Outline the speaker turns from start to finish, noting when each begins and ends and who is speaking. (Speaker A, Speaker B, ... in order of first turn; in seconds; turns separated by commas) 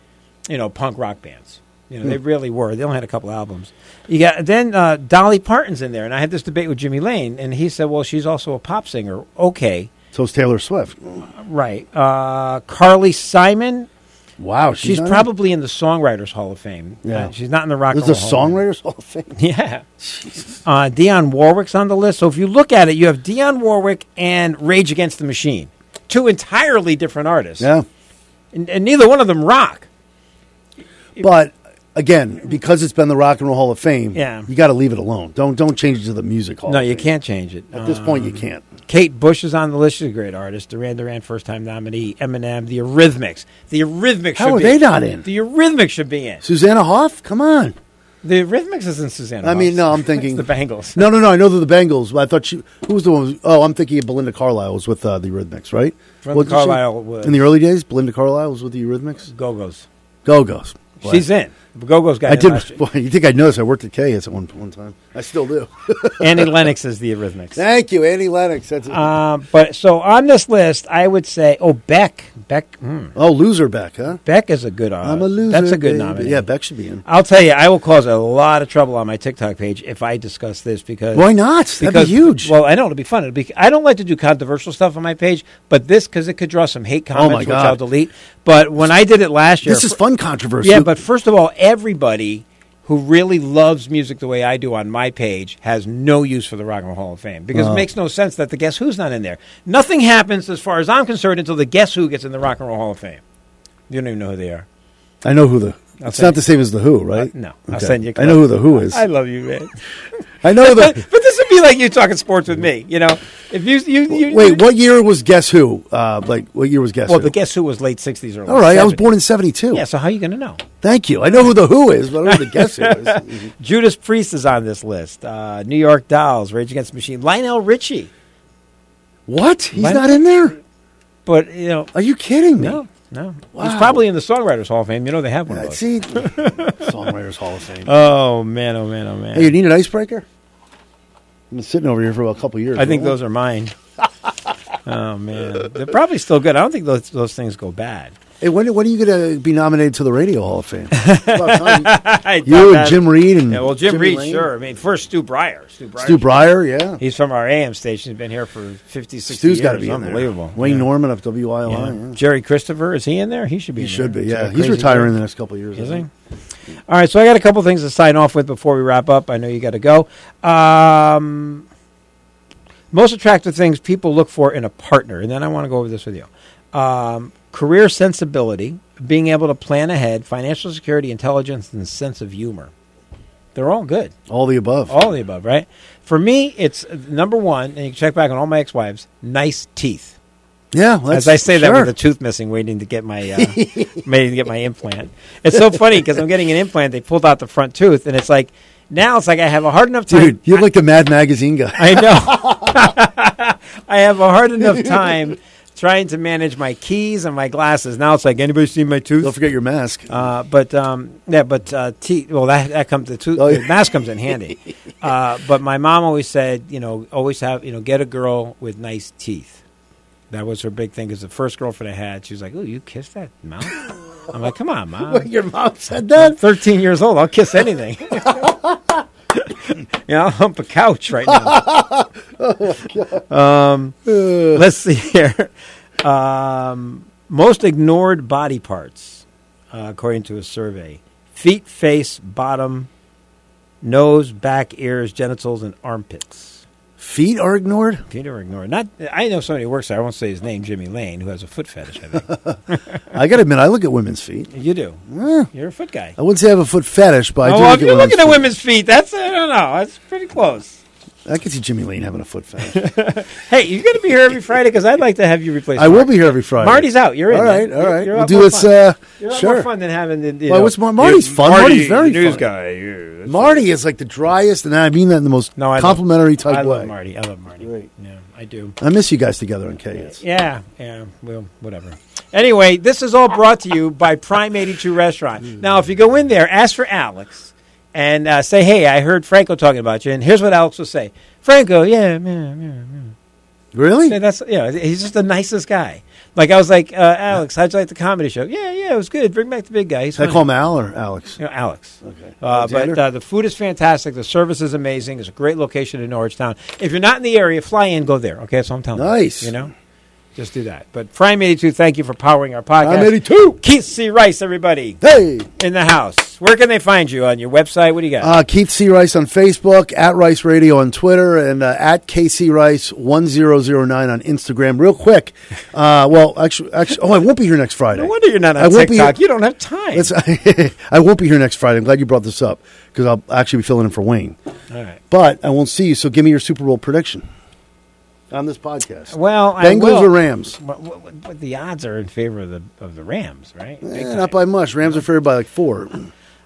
Speaker A: 0.5-9.9, Speaker B: 10.1-11.2, Speaker A: 11.4-13.9, Speaker B: 14.4-15.3, Speaker A: 14.8-18.6, Speaker B: 17.0-17.3, Speaker B: 17.9-19.3, Speaker A: 19.3-19.8, Speaker B: 20.0-20.6, Speaker A: 20.6-27.7, Speaker B: 27.6-27.8, Speaker A: 28.5-29.9, Speaker B: 31.2-37.1, Speaker A: 34.1-34.5, Speaker A: 36.6-46.4, Speaker B: 37.7-38.6, Speaker B: 44.4-45.2, Speaker B: 46.4-47.8, Speaker A: 48.2-51.0, Speaker B: 49.4-59.2, Speaker A: 56.2-57.5, Speaker A: 59.3-59.9, Speaker B: 60.2-61.2, Speaker A: 61.0-62.7, Speaker B: 62.3-66.6, Speaker A: 66.2-67.6, Speaker B: 67.5-69.1, Speaker A: 68.9-73.1, Speaker B: 73.2-74.2, Speaker A: 74.2-76.4, Speaker B: 75.0-77.0, Speaker A: 77.0-81.3, Speaker B: 81.1-82.5, Speaker A: 81.8-90.0, Speaker B: 87.1-87.8, Speaker B: 89.6-90.9, Speaker A: 90.6-103.2, Speaker B: 97.5-97.8, Speaker A: 103.9-104.7, Speaker B: 105.2-109.0, Speaker A: 106.0-106.4, Speaker A: 107.2-109.7, Speaker B: 110.4-111.0, Speaker A: 110.5-114.7, Speaker B: 114.1-117.3, Speaker A: 117.1-119.1, Speaker B: 118.5-119.8, Speaker A: 119.7-120.6, Speaker B: 120.8-123.5, Speaker A: 122.2-128.1, Speaker B: 129.3-130.6, Speaker A: 129.7-130.2, Speaker A: 131.2-131.9, Speaker B: 131.9-132.8, Speaker A: 132.6-137.0, Speaker B: 133.5-134.0, Speaker B: 135.5-137.9, Speaker A: 137.8-139.5, Speaker B: 139.3-140.2, Speaker B: 141.5-143.2, Speaker A: 142.8-143.7, Speaker A: 144.8-148.1, Speaker B: 148.4-151.9, Speaker A: 150.9-156.4, Speaker B: 152.4-154.5, Speaker B: 156.0-157.0, Speaker A: 157.0-160.9, Speaker B: 159.3-162.2, Speaker A: 161.7-165.1, Speaker B: 163.8-166.0, Speaker A: 165.8-166.1, Speaker A: 166.9-171.7, Speaker A: 172.9-182.7, Speaker A: 183.5-184.1, Speaker B: 184.3-184.9, Speaker A: 184.9-190.2, Speaker B: 190.7-191.9, Speaker A: 191.1-200.7, Speaker B: 193.3-194.1, Speaker B: 200.1-202.9, Speaker A: 201.8-209.3, Speaker B: 204.6-205.3, Speaker B: 209.2-210.1, Speaker A: 210.1-219.6, Speaker B: 213.3-213.8, Speaker A: 220.3-225.3, Speaker B: 225.0-226.4, Speaker A: 226.2-228.5, Speaker B: 228.2-228.7, Speaker A: 229.3-231.6, Speaker B: 231.3-233.2, Speaker A: 233.3-242.9, Speaker B: 234.1-234.6, Speaker A: 243.8-246.6, Speaker B: 247.0-248.0, Speaker A: 248.1-253.0, Speaker B: 252.2-252.6, Speaker B: 253.1-254.5, Speaker A: 254.5-256.1, Speaker B: 255.1-255.5, Speaker B: 256.2-258.5, Speaker A: 257.4-260.8, Speaker B: 261.2-262.8, Speaker A: 262.6-273.6, Speaker B: 265.8-269.7, Speaker B: 270.5-272.5, Speaker B: 273.2-276.9, Speaker A: 275.6-278.8, Speaker B: 278.8-280.2, Speaker A: 280.0-293.1, Speaker B: 293.7-294.1, Speaker A: 294.1-300.4, Speaker B: 300.2-301.4, Speaker A: 301.4-309.7, Speaker B: 302.0-303.0, Speaker B: 308.9-309.5, Speaker A: 310.4-315.0, Speaker B: 312.8-313.6, Speaker B: 315.0-315.5, Speaker A: 315.6-318.4, Speaker B: 318.2-329.1, Speaker A: 327.9-330.1, Speaker B: 329.9-334.4, Speaker A: 334.7-335.0, Speaker B: 335.1-337.2, Speaker B: 338.3-340.6, Speaker A: 339.1-344.3, Speaker B: 343.8-346.1